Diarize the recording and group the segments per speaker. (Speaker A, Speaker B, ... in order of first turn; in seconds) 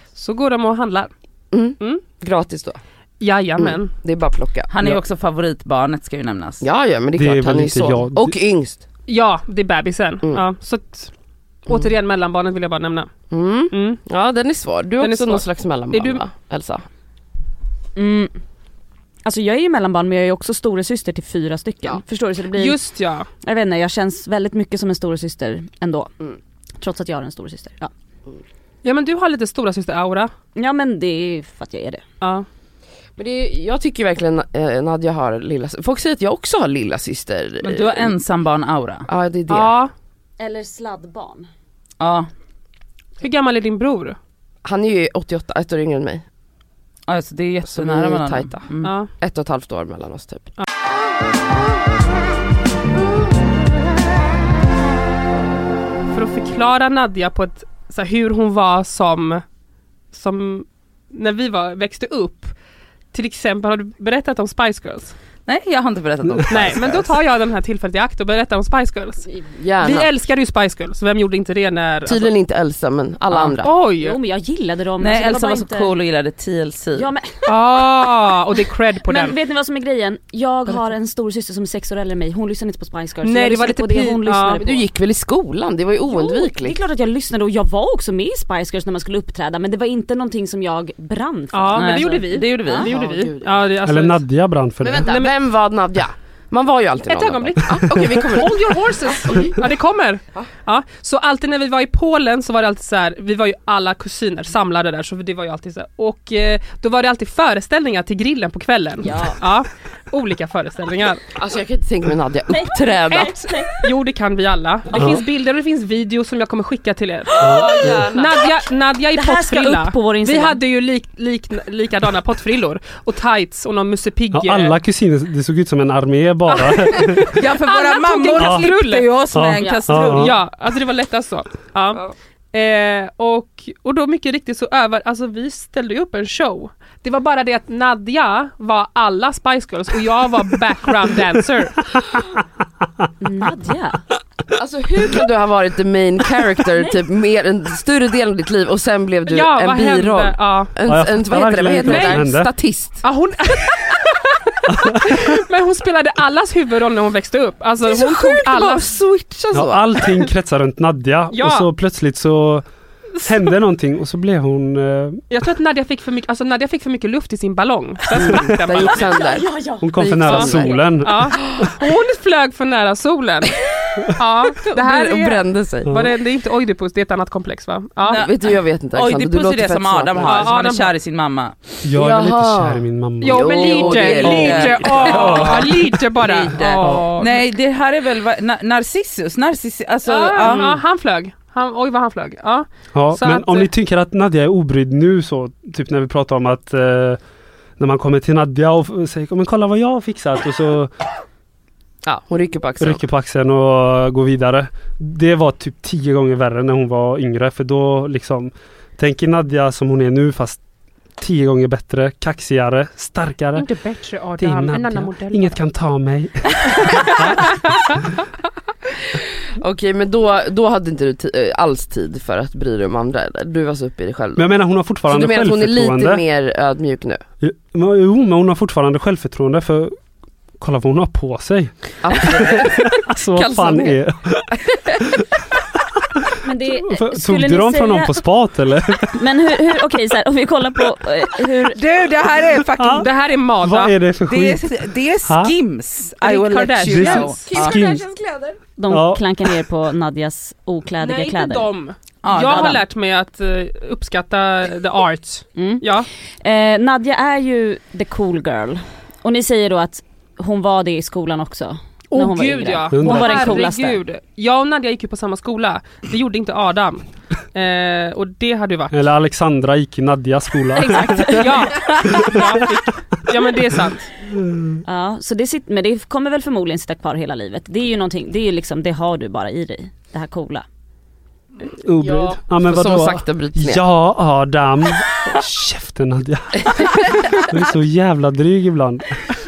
Speaker A: 0.2-1.1, 3.2-3.9, 9.1-11.1, 11.7-13.1, 13.7-14.0, 15.0-16.2, 22.6-23.3, 28.8-30.3, 32.2-32.5, 39.5-39.9, 43.2-44.2, 48.8-49.1, 56.1-59.4, 60.1-62.5, 63.1-65.2, 66.5-69.3, 69.8-72.3, 73.3-74.2, 77.5-79.4, 83.2-84.6, 91.5-94.2, 95.1-95.3, 97.1-111.2, 113.1-124.8, 126.6-129.1, 130.1-132.0, 132.5-141.9, 149.3-150.7, 151.8-152.3, 153.0-158.9, 161.3-161.7, 165.3-169.2, 170.2-173.6, 174.1-178.2, 180.2-180.9, 183.2-187.4, 190.1-193.7, 213.6-215.6, 243.0-243.9, 246.2-247.5, 251.0-256.1, 262.1-269.0, 271.4-274.1
Speaker B: 1.5-2.8, 3.6-4.7, 6.6-8.8, 13.3-16.8, 33.2-38.1, 39.1-39.8, 44.6-46.2, 47.7-50.5, 69.3-70.1, 72.0-73.7, 84.6-86.8, 92.8-93.6, 94.8-99.5, 111.4-113.3, 117.4-118.3, 144.5-153.0, 157.8-160.0, 168.2-170.8, 171.5-171.7, 174.7-176.0, 178.1-180.6, 181.9-185.7, 202.1-203.0, 219.6-224.6, 225.1-227.2, 232.0-234.0, 234.7-235.0, 247.4-248.6, 282.0-283.8, 286.8-287.2
Speaker C: 4.7-6.6, 37.6-39.1, 42.0-42.3, 47.1-49.0, 65.5-67.1, 75.0-77.1, 91.8-92.9, 127.3-130.3, 178.1-181.5, 183.8-185.6, 186.2-190.7, 241.7-243.1, 244.3-247.8, 252.2-252.8
Speaker D: 7.2-8.3, 93.8-95.1, 114.9-115.2, 117.4-118.0, 124.3-127.3, 128.4-128.7, 129.3-130.3, 150.9-152.5, 154.7-155.2, 159.5-162.7, 163.2-165.2, 168.3-168.6, 169.8-171.7, 181.8-185.7, 186.8-187.1, 192.9-197.2, 197.8-200.9, 202.8-210.6, 211.2-213.7, 214.4-218.0, 224.4-226.2, 227.4-230.0, 230.6-235.2, 236.7-239.2, 242.7-243.1, 243.6-244.7, 245.3-245.5, 246.8-248.0, 248.9-249.2, 262.9-263.6, 268.9-272.6, 274.3-274.8, 281.8-289.2
Speaker E: 18.0-18.4, 19.2-22.8, 23.4-26.1, 26.8-27.9, 30.6-32.0, 40.4-41.5, 74.0-75.9, 77.0-77.5, 79.0-84.9, 86.0-92.9, 109.0-109.4, 112.5-113.8, 119.2-120.6, 143.2-144.0, 169.3-169.8, 236.4-238.2, 239.1-241.8, 248.8-251.7, 255.6-255.8, 256.4-264.0, 270.8-271.6, 274.9-280.7